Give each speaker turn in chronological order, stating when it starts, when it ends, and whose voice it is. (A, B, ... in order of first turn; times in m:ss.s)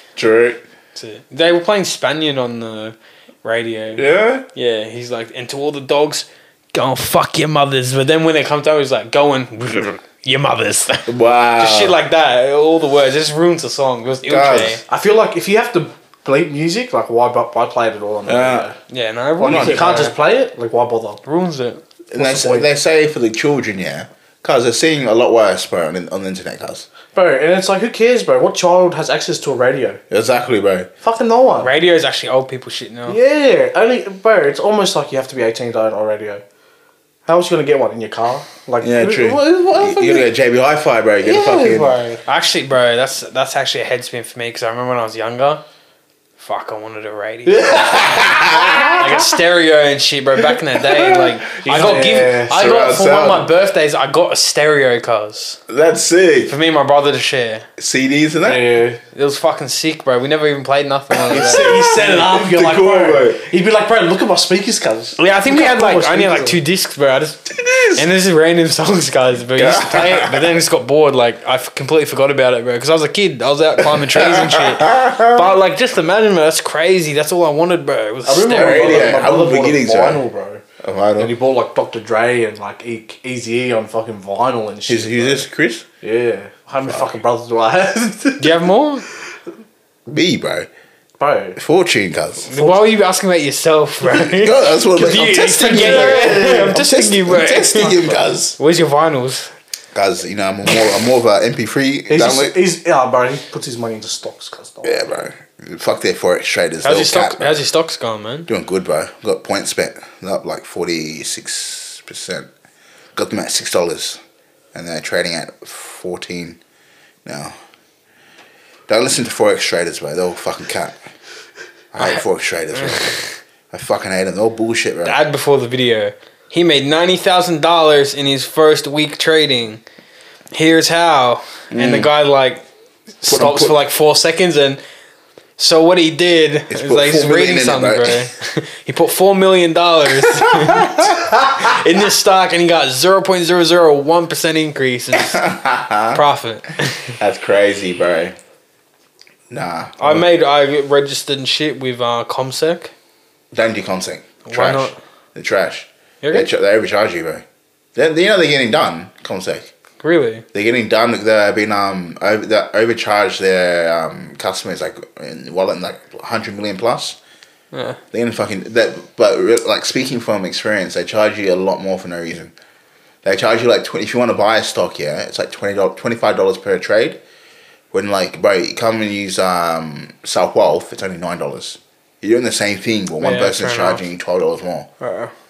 0:00.2-0:00.6 A
0:00.9-0:14.8 B
0:04.0-0:04.4 A
0:11.1-0:12.0 A
0:14.2-0:14.8 A
0:14.9-0:18.8 C
0:18.2-0:18.7 A
0:18.9-0:20.1 B
0:19.4-0:21.2 C
0:19.4-0:20.1 A
0:21.2-0:21.8 B
0:22.1-0:26.8 A
0:22.2-0:22.7 C
0:27.1-0:30.0 C
0:30.1-0:30.9 A
0:31.0-0:31.7 C
0:31.6-0:33.2 B
0:33.1-0:36.4 C
0:37.2-0:40.3 C
0:38.8-0:41.9 A
0:41.2-0:42.2 C
0:42.2-0:45.6 B
0:46.4-0:48.1 B
0:47.4-0:48.4 C
0:47.7-0:49.1 A
0:49.0-0:55.6 B
0:50.4-0:51.9 A
0:51.6-0:52.5 C
0:52.5-0:53.5 A
0:55.7-0:56.5 A
0:56.4-0:57.7 B
0:57.8-0:58.7 A
0:58.4-0:59.0 C
0:59.1-1:01.9 B
1:01.3-1:03.4 A
1:01.3-1:06.6 C
1:05.2-1:19.0 B
1:07.5-1:08.0 A
1:09.6-1:10.5 A
1:13.8-1:15.4 A
1:18.2-1:20.6 C
1:18.4-1:20.2 A
1:20.8-1:21.3 A
1:21.2-1:25.5 C
1:24.9-1:25.8 A
1:26.0-1:28.5 C
1:26.9-1:27.2 A
1:28.4-1:29.0 B
1:30.1-1:30.7 A
1:31.2-1:31.6 C
1:31.6-1:32.5 A
1:32.5-1:38.0 B
1:32.5-1:32.9 C
1:34.0-1:38.6 A
1:35.6-1:36.8 C
1:38.6-1:39.5 B
1:39.9-1:42.6 A
1:42.1-1:45.0 C
1:44.8-1:47.6 A
1:46.8-1:48.5 B
1:48.5-1:52.5 A
1:53.1-1:54.2 A
1:54.7-1:56.6 A
1:57.2-1:57.5 A
1:58.9-2:01.0 A
2:01.9-2:03.2 A
2:03.7-2:05.2 A
2:05.0-2:09.8 B
2:10.5-2:12.6 B
2:11.7-2:12.1 A
2:13.2-2:14.8 B
2:13.2-2:13.8 A
2:15.6-2:25.4 B
2:16.7-2:18.2 A
2:20.2-2:21.4 A
2:25.1-2:26.2 A
2:26.1-2:27.2 B
2:27.2-2:28.4 A
2:29.5-2:30.2 A
2:30.0-2:32.9 B
2:33.5-2:37.4 A
2:34.4-2:35.0 B
2:36.2-2:36.5 B
2:37.9-2:39.7 A
2:40.0-2:40.4 B
2:40.5-2:47.2 A
2:47.7-2:48.0 B
2:48.1-2:52.5 A
2:53.2-2:57.2 A
2:57.9-3:04.9 A
3:03.2-3:04.0 B
3:05.0-3:05.3 B